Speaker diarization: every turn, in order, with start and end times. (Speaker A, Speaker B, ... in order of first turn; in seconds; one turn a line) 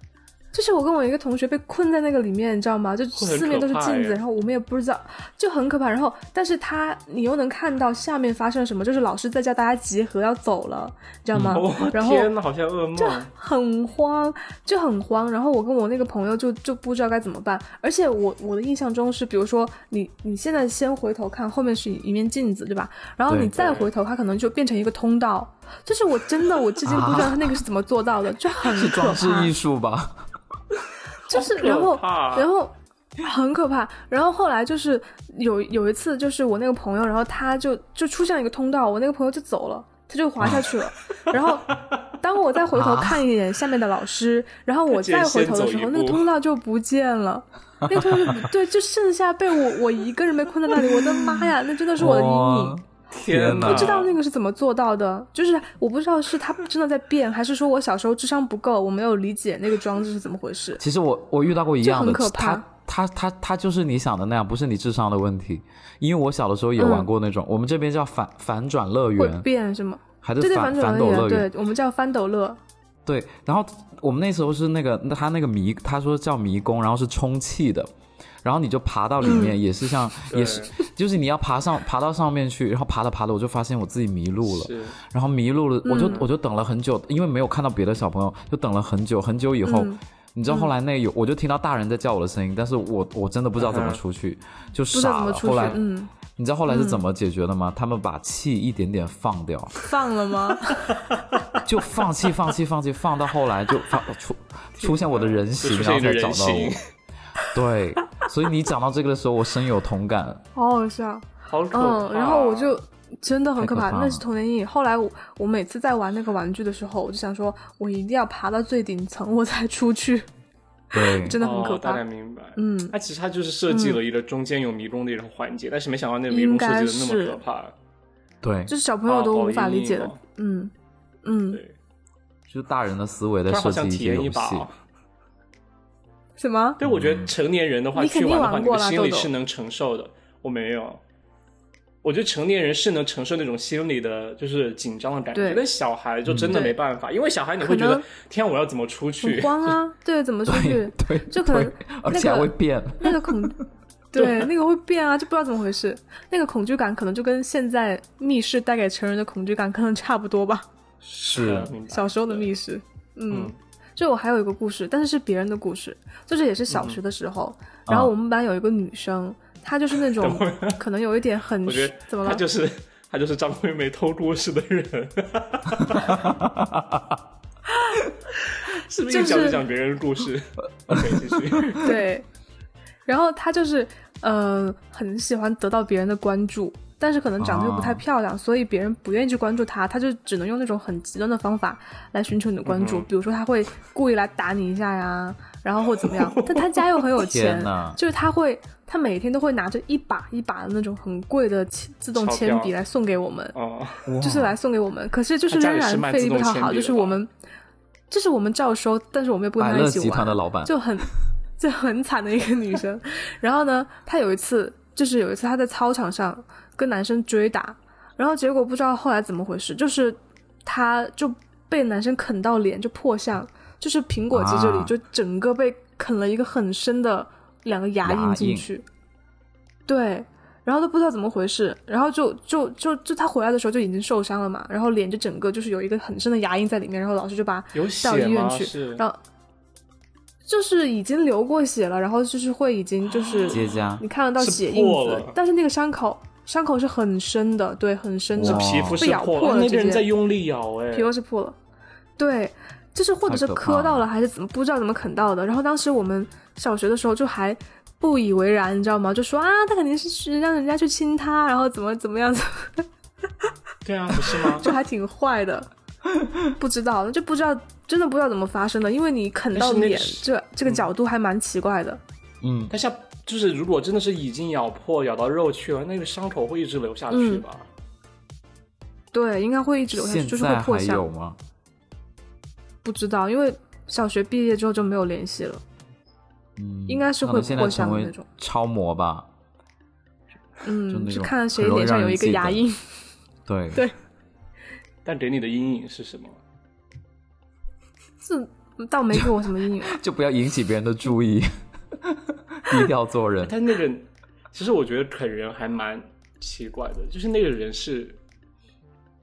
Speaker A: 0.5-12.3
Speaker B: 3.1-4.2
Speaker C: 11.3-11.6
Speaker B: 11.5-13.3
Speaker A: 13.0-29.5
Speaker C: 23.3-23.5
Speaker B: 23.6-23.9
Speaker C: 26.9-27.6
Speaker C: 28.6-30.2
Speaker A: 31.3-52.8
Speaker B: 31.3-32.5
Speaker C: 42.7-43.2
Speaker B: 44.9-46.3
Speaker C: 52.0-54.0
Speaker B: 53.1-54.1
Speaker A: 53.5-60.8
Speaker C: 60.8-69.5
Speaker A: 61.8-62.6
Speaker A: 66.8-67.1
Speaker A: 69.2-72.6
Speaker C: 70.2-71.5
Speaker C: 73.1-77.9
Speaker C: 78.4-95.8
Speaker A: 79.2-79.6
Speaker B: 80.3-80.8
Speaker B: 84.4-85.0
Speaker A: 85.8-86.3
Speaker B: 86.0-86.3
Speaker A: 89.6-90.7
Speaker B: 93.6-94.0
Speaker A: 94.9-96.1
Speaker C: 96.4-99.8
Speaker A: 96.7-97.0
Speaker A: 99.8-100.9
Speaker C: 101.7-106.8
Speaker B: 104.8-106.8
Speaker C: 107.5-110.4
Speaker A: 110.5-120.3
Speaker B: 111.5-112.8
Speaker C: 113.6-114.3
Speaker C: 120.9-121.4
Speaker A: 120.9-122.0
Speaker B: 121.4-127.7
Speaker A: 122.6-122.9
Speaker A: 123.7-124.0
Speaker A: 126.3-127.4
Speaker C: 128.4-128.7
Speaker A: 128.7-130.7
Speaker B: 129.1-130.2
Speaker A: 131.2-131.6
Speaker C: 132.5-134.7
Speaker B: 133.5-134.8
Speaker A: 136.4-136.8
Speaker B: 136.8-141.0
Speaker C: 136.8-137.3
Speaker A: 137.9-139.3
Speaker B: 142.0-149.8
Speaker A: 145.3-145.6
Speaker C: 146.3-146.6
Speaker A: 146.5-146.8
Speaker A: 147.6-148.1
Speaker A: 149.2-153.6
Speaker C: 150.5-153.6
Speaker A: 154.1-160.7
Speaker B: 154.2-154.5
Speaker B: 161.0-162.5
Speaker C: 161.3-161.7
Speaker A: 161.9-172.4
Speaker B: 163.3-163.6
Speaker B: 166.7-167.0
Speaker C: 167.9-168.1
Speaker B: 170.1-170.8
Speaker B: 171.6-176.2
Speaker C: 176.1-177.0
Speaker B: 178.7-181.9
Speaker A: 179.1-179.6
Speaker A: 181.8-182.3
Speaker A: 183.1-203.6
Speaker C: 187.4-188.0
Speaker B: 192.7-193.1
Speaker B: 196.0-196.8
Speaker C: 197.2-198.0
Speaker B: 202.1-202.7
Speaker B: 203.5-204.1
Speaker C: 204.1-204.6
Speaker A: 204.2-207.3
Speaker B: 205.5-207.2
Speaker A: 208.1-228.8
Speaker C: 209.6-210.7
Speaker C: 224.3-224.9
Speaker C: 228.0-228.7
Speaker A: 229.9-239.2
Speaker B: 237.7-239.0
Speaker A: 240.5-250.1
Speaker B: 243.1-243.8
Speaker C: 243.5-244.1
Speaker B: 244.4-245.4
Speaker C: 248.3-249.1
Speaker B: 248.4-251.1
Speaker A: 250.9-251.6
Speaker A: 252.2-262.9
Speaker C: 253.3-254.1
Speaker B: 263.9-264.7
Speaker A: 264.3-265.7
Speaker A: 266.6-272.0
Speaker B: 269.5-270.9
Speaker C: 272.4-272.7
Speaker B: 272.7-277.7
Speaker A: 277.1-277.4
Speaker A: 279.1-281.1
Speaker C: 279.9-281.4
Speaker A: 282.8-285.6
Speaker C: 286.6-289.3
Speaker A: 286.9-288.2
Speaker A: 290.6-292.8
Speaker C: 290.9-292.6
Speaker C: 293.5-293.9
Speaker B: 295.1-296.4
Speaker A: 298.2-300.0
Speaker C: 299.8-303.6
Speaker B: 303.4-308.2